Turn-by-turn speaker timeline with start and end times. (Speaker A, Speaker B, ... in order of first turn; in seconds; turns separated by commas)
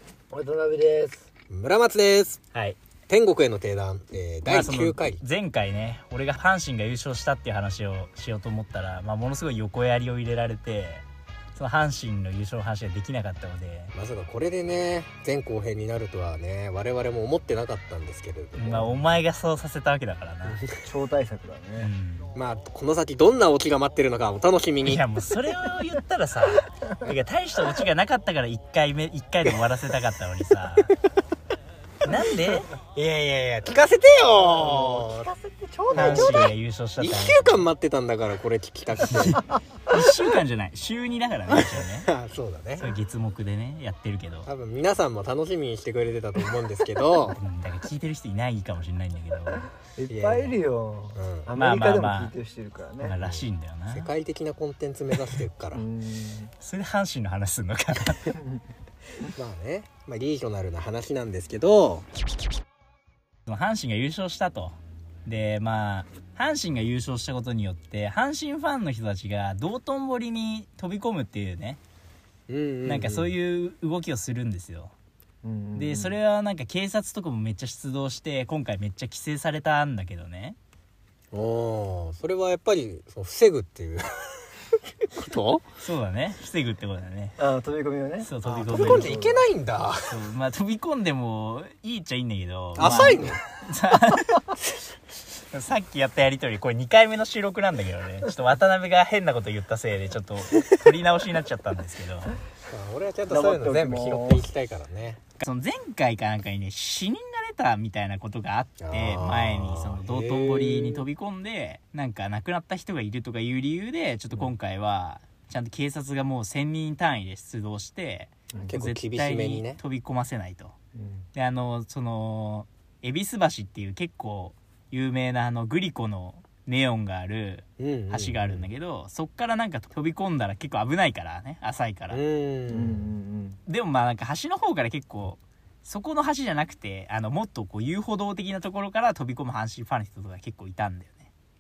Speaker A: 0.3-1.3, Speaker B: 1.5-2.4, Speaker B: 3.1-5.2, Speaker C: 4.5-13.9, Speaker B: 13.9-18.9, Speaker C: 18.6-20.6, Speaker B: 20.4-20.8, Speaker A: 20.8-21.9, Speaker C: 21.8-22.3, Speaker B: 22.4-25.0, Speaker C: 24.9-30.9, Speaker C: 32.0-32.7, Speaker B: 32.8-35.3, Speaker A: 34.4-36.5, Speaker C: 35.9-37.7, Speaker B: 36.0-39.4, Speaker C: 39.0-42.1, Speaker B: 41.5-43.0, Speaker C: 42.8-44.5, Speaker B: 44.5-47.4, Speaker C: 47.3-49.7, Speaker A: 50.0-53.2, Speaker B: 50.1-50.6, Speaker B: 51.1-51.5, Speaker C: 51.5-52.4, Speaker C: 53.0-54.1, Speaker B: 53.2-55.8, Speaker A: 55.7-56.5, Speaker C: 56.6-58.4, Speaker A: 58.4-58.6, Speaker B: 59.4-62.1, Speaker C: 63.5-71.8, Speaker B: 72.5-73.3, Speaker C: 72.9-74.9, Speaker A: 75.4-76.2, Speaker C: 75.8-80.6, Speaker B: 81.3-84.5, Speaker B: 85.0-85.7, Speaker C: 85.8-87.4, Speaker A: 87.4-89.5, Speaker C: 88.2-89.2, Speaker B: 88.4-90.1, Speaker C: 90.1-94.6, Speaker B: 92.8-93.4, Speaker C: 95.5-102.4, Speaker B: 100.5-100.9, Speaker B: 102.7-105.2, Speaker A: 103.3-104.5, Speaker C: 105.4-120.8, Speaker B: 108.8-111.1, Speaker B: 118.7-119.8, Speaker A: 121.0-121.3, Speaker C: 121.3-132.2, Speaker B: 127.8-128.7, Speaker B: 132.1-133.1, Speaker A: 132.7-133.6, Speaker C: 133.7-141.3